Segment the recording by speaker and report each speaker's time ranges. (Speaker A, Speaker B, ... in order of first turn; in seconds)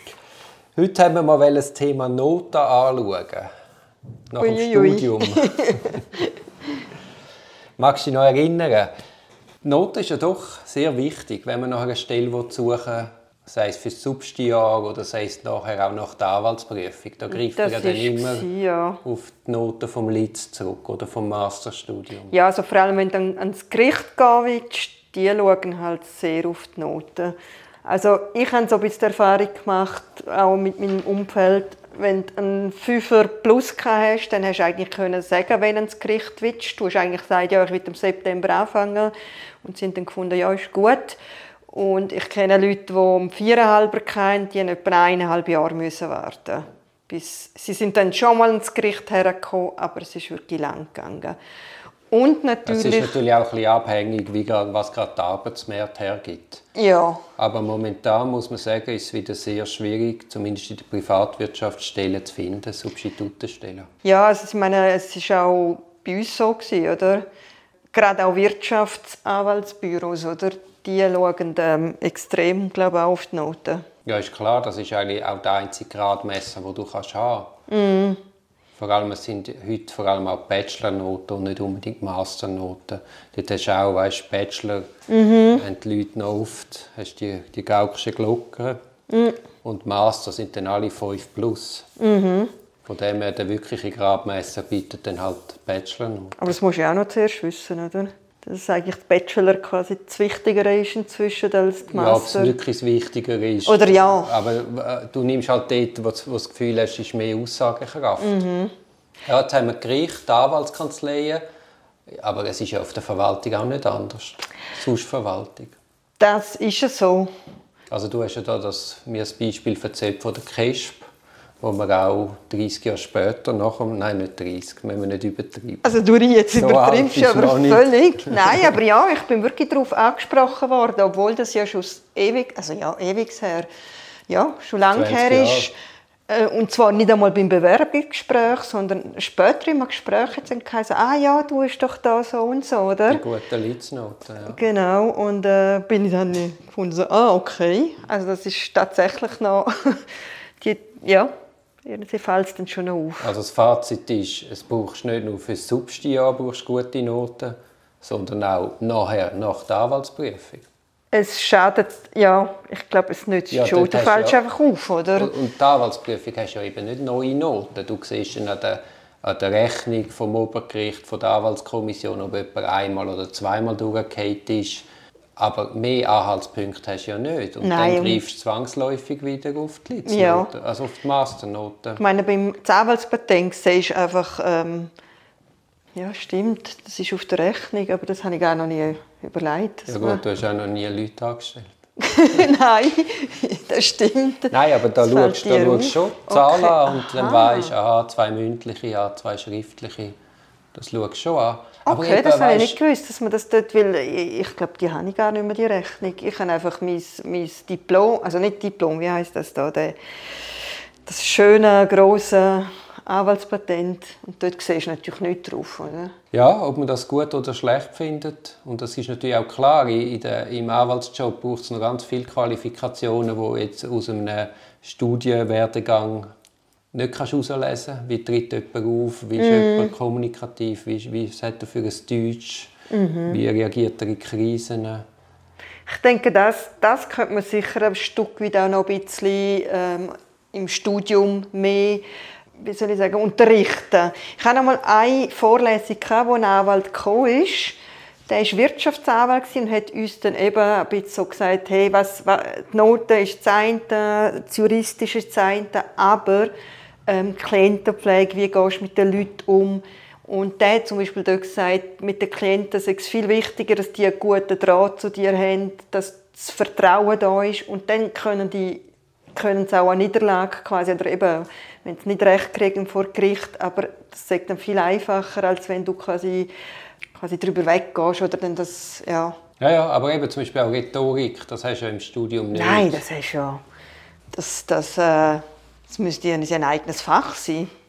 Speaker A: 0.8-3.5, 4.3-5.7, 7.8-8.9, 9.6-18.5, 19.0-22.3, 52.7-56.6, 57.4-63.9, 74.0-77.5, 78.8-84.9, 85.5-88.8, 89.6-91.9, 92.9-96.5, 101.9-108.4, 109.3-111.4, 112.1-115.8, 117.9-121.1, 121.6-125.9, 126.5-128.8, 134.9-135.7, 143.1-144.6, 153.2-160.7, 163.5-164.4, 165.2-174.9, 175.4-182.0, 189.9-191.7, 194.5-200.2, 200.7-202.8, 216.3-226.3, 226.9-232.7, 233.3-235.0, 279.6-283.0
Speaker B: 4.4-6.2, 17.3-19.0, 22.3-41.2, 41.7-51.4, 52.1-53.1, 56.8-57.2, 64.0-67.2, 67.9-73.8, 77.7-78.2, 85.1-85.6, 89.1-89.4, 92.0-92.5, 96.4-102.5, 103.7-104.3, 108.2-108.7, 116.2-117.3, 125.8-133.7, 134.3-135.8, 136.3-143.2, 144.4-150.0, 150.6-151.3, 151.8-153.3, 161.1-165.3, 177.6-178.2, 180.1-180.5, 182.0-184.9, 185.9-190.2, 192.0-197.7, 201.9-210.0, 211.1-216.1, 229.4-229.9, 232.9-233.4, 235.9-242.0, 242.6-256.5, 257.1-276.5, 277.1-279.4, 282.5-283.6, 284.3-287.7